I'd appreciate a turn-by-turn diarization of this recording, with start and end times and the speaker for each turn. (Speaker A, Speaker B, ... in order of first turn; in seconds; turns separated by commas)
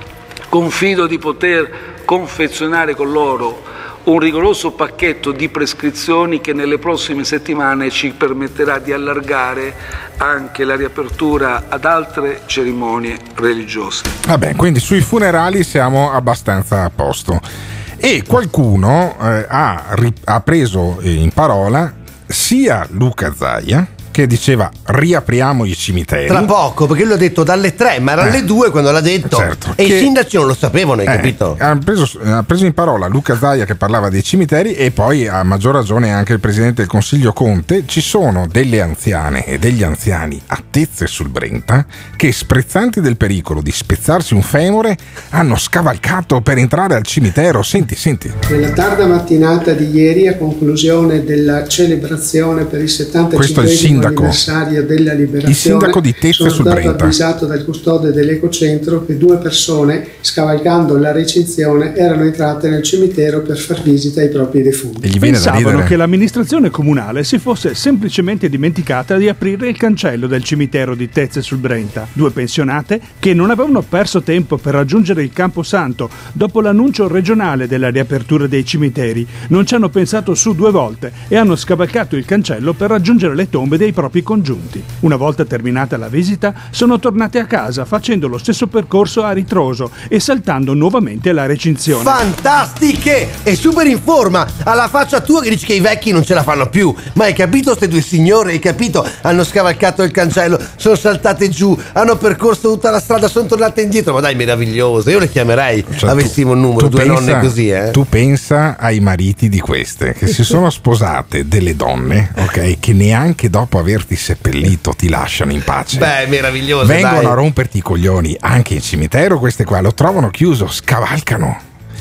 Speaker A: 0.5-14.2, Speaker B: 14.2-17.4, Speaker B: 18.0-26.5, Speaker C: 26.3-31.6, Speaker B: 29.3-30.1, Speaker B: 31.1-48.4, Speaker D: 48.5-65.1, Speaker B: 53.4-54.4, Speaker B: 55.5-57.1, Speaker B: 65.0-66.0, Speaker E: 65.2-92.2, Speaker C: 92.0-108.0, Speaker B: 105.9-116.1, Speaker C: 115.9-117.3, Speaker B: 116.8-121.6